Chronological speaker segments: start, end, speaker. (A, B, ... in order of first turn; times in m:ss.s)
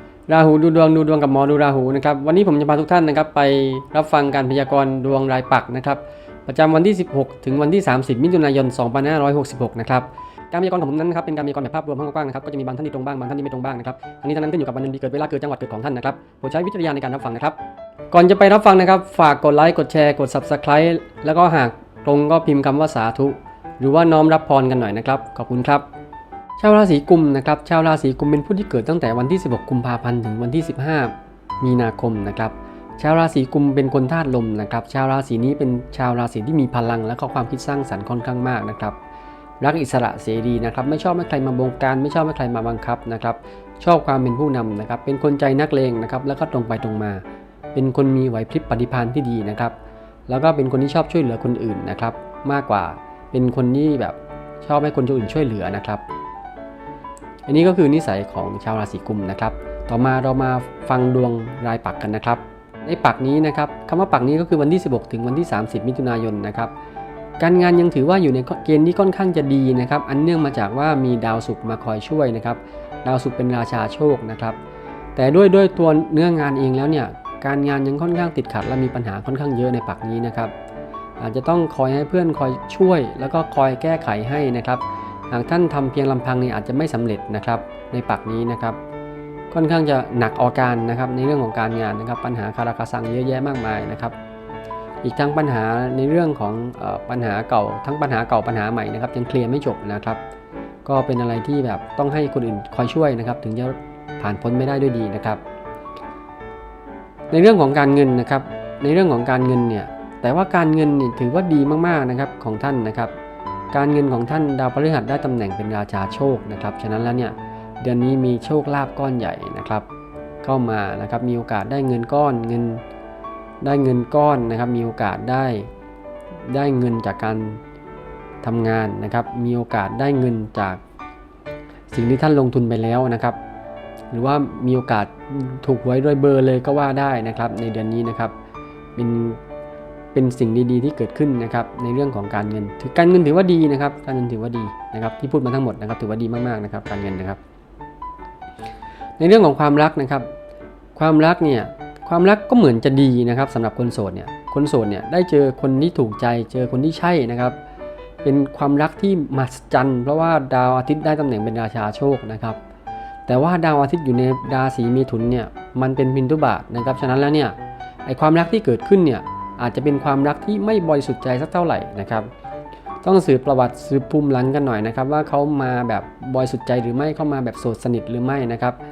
0:00.3-0:17.6 A
0:18.1-0:25.9 A
0:26.6-0:39.0 A
0:39.6-0:47.2 A
0:47.7-0:49.8 A
0:50.3-0:56.0 A
0:57.5-1:06.7 A
1:07.4-1:14.6 A
1:15.2-1:20.5 A
1:21.2-1:28.8 A
1:29.5-1:34.1 A
1:35.0-1:40.2 A
1:40.8-1:45.4 A
1:47.3-1:53.1 A
1:53.7-1:59.9 A
2:00.4-2:02.8 A
2:03.6-2:05.7 A
2:06.5-2:07.6 A
2:08.4-2:10.8 A
2:11.9-2:13.4 A
2:14.1-2:18.3 A
2:19.0-2:19.4 A
2:20.1-2:27.4 A
2:29.2-2:30.3 A
2:31.0-2:37.6 A
2:38.2-2:42.6 A
2:43.3-2:52.3 A
2:53.0-2:58.8 A